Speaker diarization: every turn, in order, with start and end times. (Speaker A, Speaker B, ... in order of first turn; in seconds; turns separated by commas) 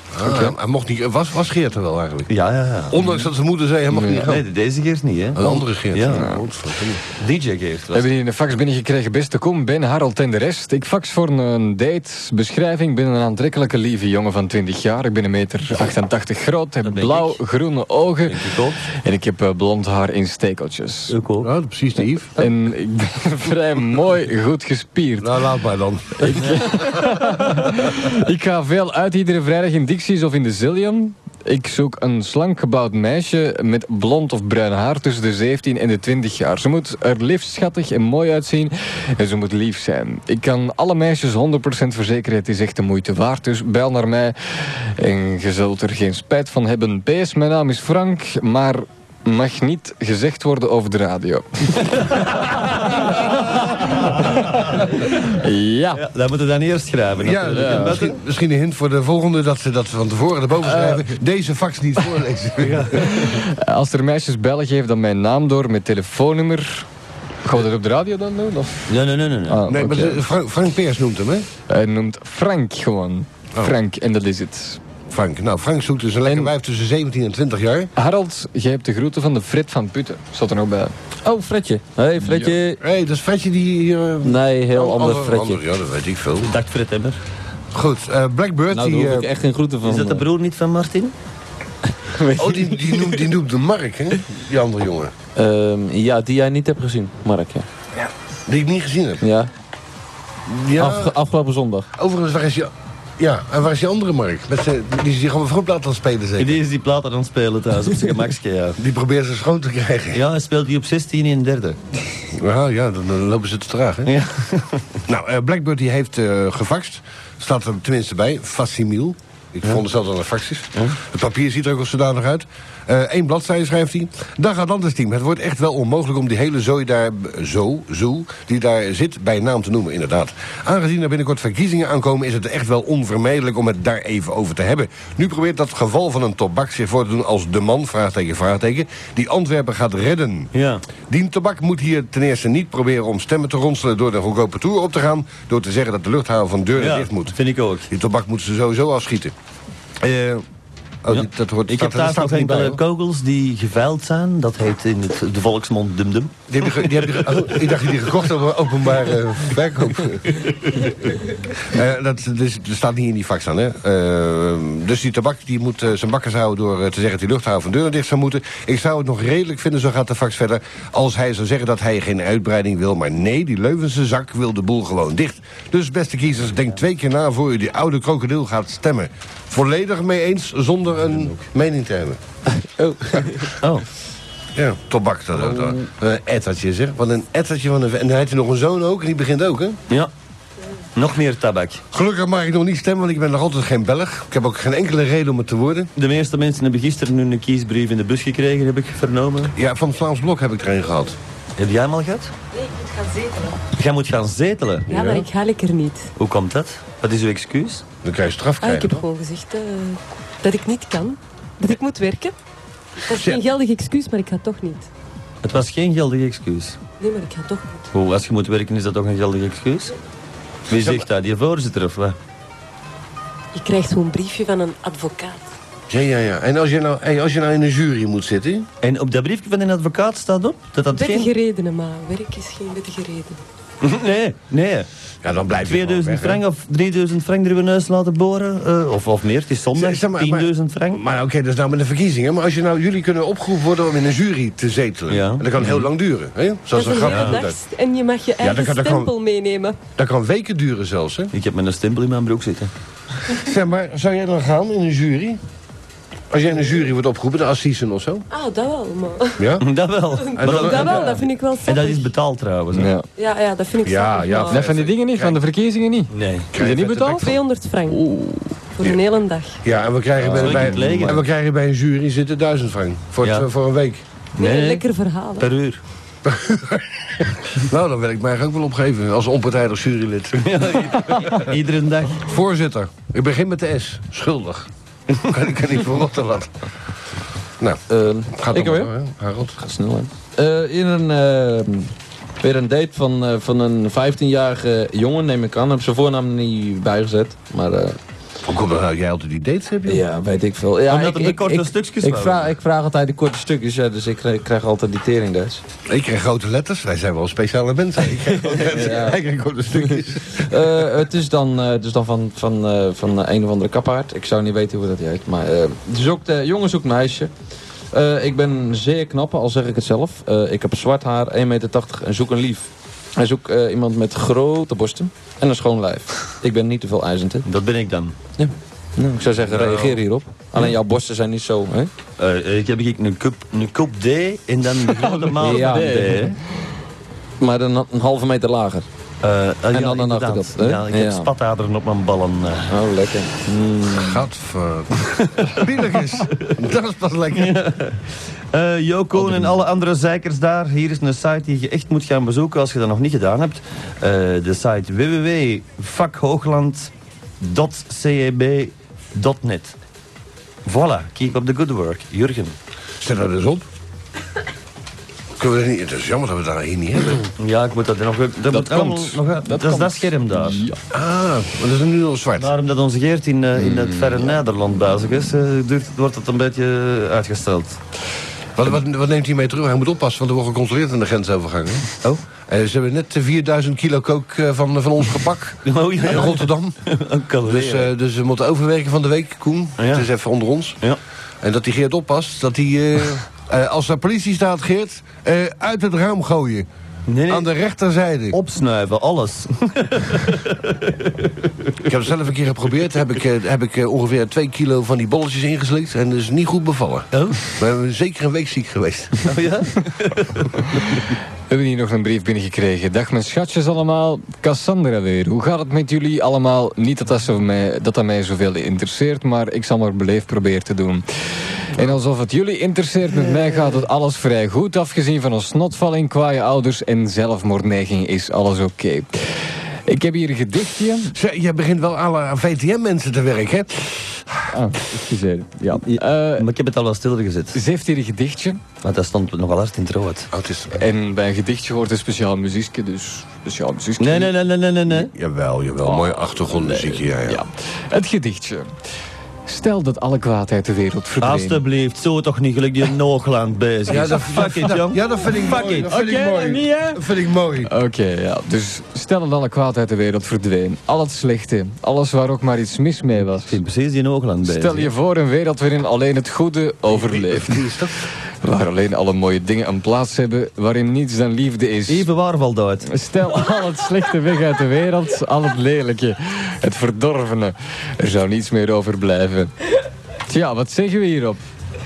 Speaker A: 0.1-2.3, Speaker B: 2.3-3.0, Speaker A: 2.9-4.4, Speaker B: 4.0-6.3, Speaker A: 5.3-7.0, Speaker C: 6.1-6.4, Speaker B: 7.1-8.1, Speaker C: 7.9-21.1, Speaker B: 16.8-17.4, Speaker B: 18.2-18.8, Speaker B: 21.1-21.5, Speaker A: 21.4-22.4, Speaker C: 22.4-25.4, Speaker A: 25.2-26.8, Speaker C: 26.2-56.0, Speaker B: 55.9-58.2, Speaker A: 57.2-63.3, Speaker C: 57.5-58.0, Speaker C: 63.0-66.9, Speaker C: 67.4-68.9, Speaker B: 68.9-69.7, Speaker C: 69.5-70.2, Speaker A: 69.7-71.5, Speaker C: 71.7-74.8, Speaker A: 75.1-77.9, Speaker C: 76.2-76.5, Speaker C: 78.0-80.9, Speaker D: 81.2-82.8, Speaker C: 82.2-82.5, Speaker A: 82.8-86.5, Speaker D: 84.2-85.6, Speaker B: 86.4-87.2, Speaker A: 87.7-89.3, Speaker D: 88.7-90.2, Speaker B: 89.8-91.1, Speaker D: 91.9-93.3, Speaker A: 92.3-95.1, Speaker D: 95.3-97.7, Speaker A: 98.5-99.2, Speaker D: 99.2-99.5, Speaker A: 100.5-101.2, Speaker D: 100.8-101.9, Speaker A: 102.0-106.6, Speaker B: 106.4-108.8, Speaker A: 108.8-110.2, Speaker B: 110.1-111.9, Speaker A: 112.3-114.2, Speaker B: 114.0-114.9, Speaker A: 115.1-140.5, Speaker B: 140.5-140.8, Speaker A: 141.1-147.3, Speaker B: 146.8-147.9, Speaker A: 147.9-149.3, Speaker B: 150.0-150.4, Speaker A: 151.0-152.8, Speaker B: 151.1-157.4, Speaker A: 156.5-182.2, Speaker D: 182.5-183.6, Speaker B: 183.6-183.8, Speaker A: 184.5-189.8, Speaker D: 185.5-185.8, Speaker B: 190.9-191.8, Speaker A: 191.9-195.9, Speaker B: 195.9-199.5, Speaker A: 199.5-201.2, Speaker B: 201.6-202.3, Speaker E: 202.5-203.6, Speaker B: 203.7-204.9, Speaker A: 204.9-205.3, Speaker E: 204.9-206.1, Speaker B: 206.2-207.8, Speaker A: 208.0-209.0, Speaker E: 208.6-212.3, Speaker E: 213.0-214.9, Speaker A: 213.1-213.4, Speaker B: 215.4-216.8, Speaker E: 217.0-217.9, Speaker B: 217.9-219.9, Speaker B: 220.7-222.2, Speaker A: 220.7-221.1, Speaker E: 223.5-225.5, Speaker A: 225.9-228.7, Speaker B: 228.8-231.3, Speaker E: 230.9-233.4, Speaker B: 233.8-234.9, Speaker A: 235.2-236.4, Speaker B: 235.6-241.0, Speaker A: 239.7-247.6, Speaker B: 245.1-245.7, Speaker E: 246.7-249.8, Speaker B: 247.0-247.4, Speaker A: 248.4-249.1, Speaker A: 250.0-251.3, Speaker B: 251.3-252.7, Speaker A: 253.3-255.4, Speaker A: 256.3-258.3, Speaker E: 258.3-259.5, Speaker A: 259.4-259.7, Speaker B: 259.6-262.9, Speaker E: 260.2-262.1, Speaker A: 260.3-261.2, Speaker C: 262.7-263.1, Speaker E: 263.1-264.6, Speaker A: 263.8-265.4, Speaker C: 264.5-267.3, Speaker B: 266.1-266.5, Speaker A: 266.5-267.4, Speaker E: 267.1-268.0, Speaker C: 267.9-268.5, Speaker E: 268.8-269.6, Speaker A: 269.6-274.0, Speaker B: 270.2-271.2, Speaker B: 273.2-273.5, Speaker B: 274.4-274.8, Speaker E: 274.4-275.5, Speaker B: 275.4-275.8, Speaker A: 276.2-281.5, Speaker B: 280.3-282.3, Speaker A: 282.1-284.7, Speaker A: 285.2-286.5, Speaker A: 287.6-289.6, Speaker D: 287.9-288.9, Speaker D: 289.6-298.0, Speaker A: 298.4-300.0, Speaker D: 299.9-305.6, Speaker B: 300.9-302.5, Speaker A: 305.9-310.7, Speaker D: 308.5-309.2, Speaker D: 309.9-317.3, Speaker D: 317.9-327.4, Speaker B: 327.4-328.1, Speaker D: 328.4-331.9, Speaker B: 329.5-330.0, Speaker B: 332.2-336.4, Speaker C: 334.8-336.3, Speaker D: 335.4-336.2, Speaker D: 337.4-338.9, Speaker B: 339.2-342.7, Speaker D: 339.7-341.3, Speaker D: 342.7-344.2, Speaker A: 343.9-347.6, Speaker B: 345.2-345.6, Speaker B: 346.3-346.6, Speaker B: 347.3-359.7, Speaker D: 349.2-349.5, Speaker B: 360.6-362.5, Speaker A: 363.0-363.6, Speaker A: 365.4-367.3, Speaker B: 367.4-370.6, Speaker C: 368.5-370.8, Speaker A: 370.9-372.5, Speaker B: 372.4-377.8, Speaker C: 373.6-374.2, Speaker A: 378.6-381.9, Speaker A: 382.5-386.8, Speaker B: 385.6-387.9, Speaker A: 387.4-390.8, Speaker B: 389.8-390.1, Speaker A: 391.4-396.7, Speaker B: 397.1-397.5, Speaker A: 397.3-398.4, Speaker B: 398.3-401.7, Speaker A: 401.8-409.3, Speaker B: 407.1-407.6, Speaker B: 409.2-411.0, Speaker C: 411.5-421.0, Speaker C: 421.7-431.1, Speaker A: 431.1-434.5, Speaker C: 434.5-436.5, Speaker B: 435.8-437.6, Speaker C: 437.5-438.6, Speaker B: 438.8-440.3, Speaker A: 440.3-440.8, Speaker C: 440.7-444.3, Speaker B: 444.0-445.1, Speaker A: 444.9-447.4, Speaker C: 445.9-448.7, Speaker C: 449.4-451.6, Speaker B: 451.2-455.9, Speaker A: 453.9-457.7, Speaker C: 455.5-457.0, Speaker C: 457.6-463.6, Speaker B: 463.3-464.9, Speaker C: 464.5-467.7, Speaker A: 466.9-468.0, Speaker C: 468.4-472.1, Speaker B: 471.9-472.9, Speaker C: 472.9-479.5, Speaker C: 480.3-481.4